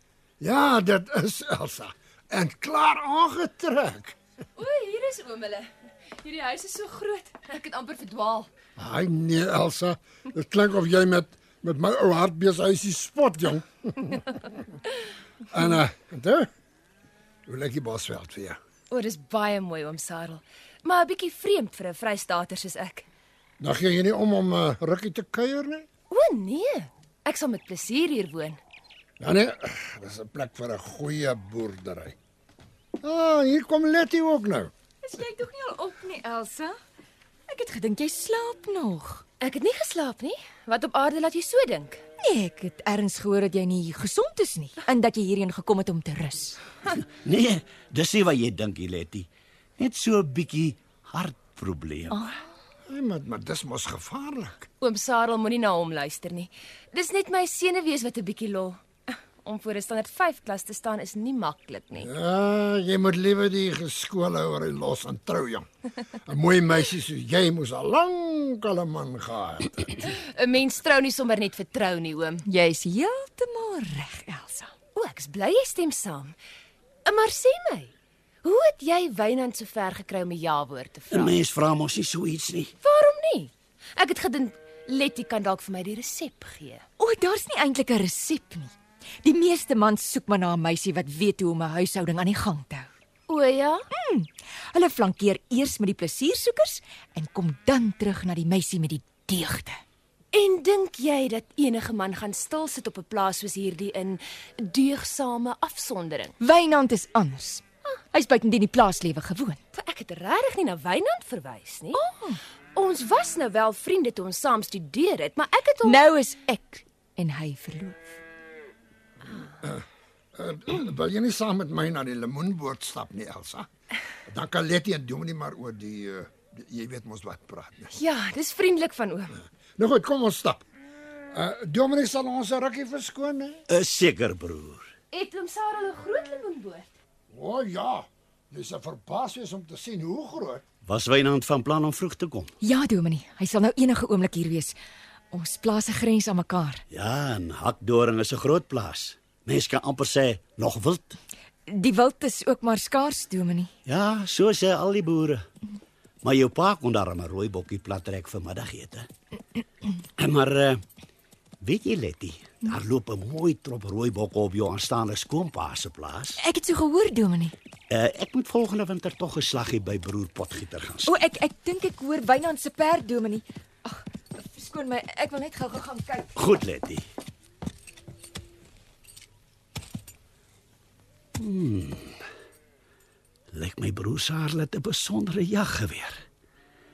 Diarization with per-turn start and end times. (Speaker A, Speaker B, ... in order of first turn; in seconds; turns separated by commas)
Speaker A: 0.4-4.2, Speaker B: 4.6-5.7, Speaker B: 6.2-8.5, Speaker A: 8.8-14.4, Speaker A: 15.5-16.5, Speaker A: 17.5-18.6, Speaker B: 18.9-23.1, Speaker A: 23.6-25.9, Speaker B: 26.1-28.6, Speaker A: 29.2-32.1, Speaker A: 33.0-34.7, Speaker C: 35.0-36.8, Speaker C: 37.5-39.2, Speaker B: 39.4-42.0, Speaker C: 42.2-46.6, Speaker D: 47.1-49.3, Speaker D: 49.8-52.3, Speaker C: 52.1-52.4, Speaker A: 52.9-54.7, Speaker B: 54.8-62.1, Speaker A: 62.0-65.7, Speaker A: 66.2-70.0, Speaker B: 70.0-72.4, Speaker C: 72.5-74.7, Speaker B: 74.9-76.4, Speaker B: 77.1-81.3, Speaker D: 81.1-82.7, Speaker B: 82.8-86.8, Speaker C: 87.0-92.9, Speaker B: 93.3-93.9, Speaker C: 93.9-99.8, Speaker B: 100.3-106.3, Speaker C: 106.4-109.6, Speaker B: 109.7-112.0, Speaker C: 111.9-112.4, Speaker B: 112.7-116.0, Speaker C: 115.8-118.2, Speaker A: 120.3-123.7, Speaker A: 124.3-128.0, Speaker B: 128.0-129.3, Speaker A: 129.8-130.6, Speaker A: 131.3-133.6, Speaker D: 133.7-134.9, Speaker B: 135.1-136.9, Speaker A: 137.3-140.6, Speaker D: 140.8-142.5, Speaker C: 142.6-144.8, Speaker C: 145.3-146.8, Speaker D: 146.9-151.2, Speaker C: 151.7-153.7, Speaker D: 153.8-155.4, Speaker D: 156.2-159.1, Speaker D: 160.2-160.8, Speaker D: 161.6-166.4, Speaker C: 166.4-167.5, Speaker D: 167.9-171.2, Speaker C: 171.1-176.3, Speaker D: 176.3-177.0, Speaker D: 181.4-182.2, Speaker D: 183.5-186.2